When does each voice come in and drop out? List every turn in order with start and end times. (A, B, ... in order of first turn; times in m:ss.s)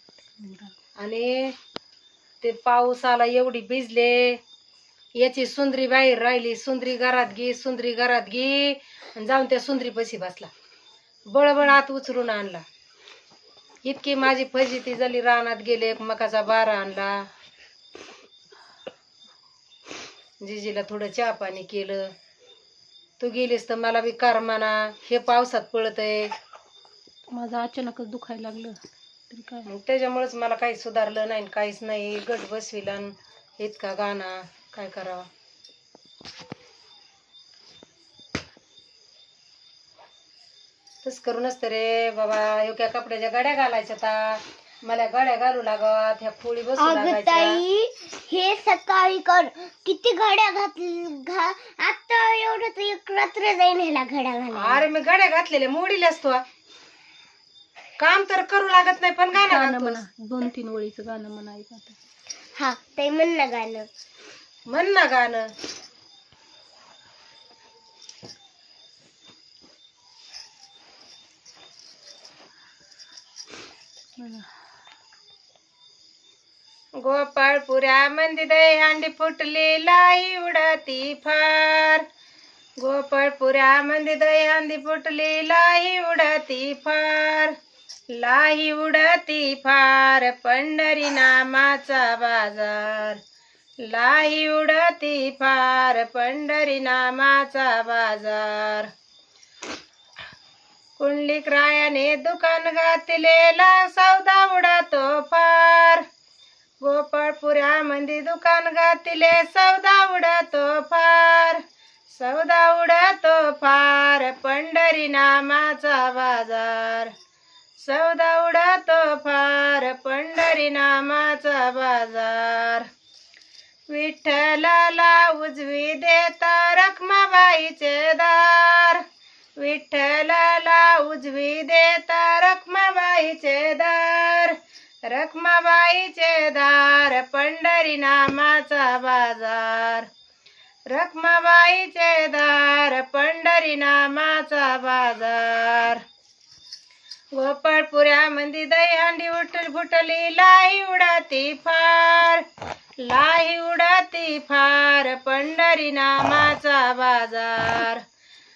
0:00.4-0:00.7 A
0:01.0-0:01.5 B
0:02.4-0:04.4 B
0:05.2-0:10.5 B
0:11.3-0:12.6 B
0:13.8-0:17.2 B
0:20.4-0:22.1 B
0:23.2-0:26.3 B
0:27.3-0:28.8 A
0:29.3-0:29.7 A
0:29.7-0:35.3 B
0:41.0-0:47.6 B
0:46.8-0:54.8 C
0:54.5-0:56.4 B
0:58.0-1:00.0 B
0:59.3-1:02.0 A
1:02.6-1:03.9 C
1:04.7-1:05.5 B
1:14.2-1:14.4 A
1:17.0-1:22.0 B
1:22.8-1:27.5 B
1:28.1-1:33.2 B
1:33.8-1:38.9 B
1:41.0-1:46.0 B
1:46.8-1:57.1 B
1:57.8-2:02.9 B
2:03.9-2:09.0 B
2:09.6-2:20.1 B
2:20.9-2:26.0 B
2:27.3-2:32.4 B
2:33.0-2:38.0 B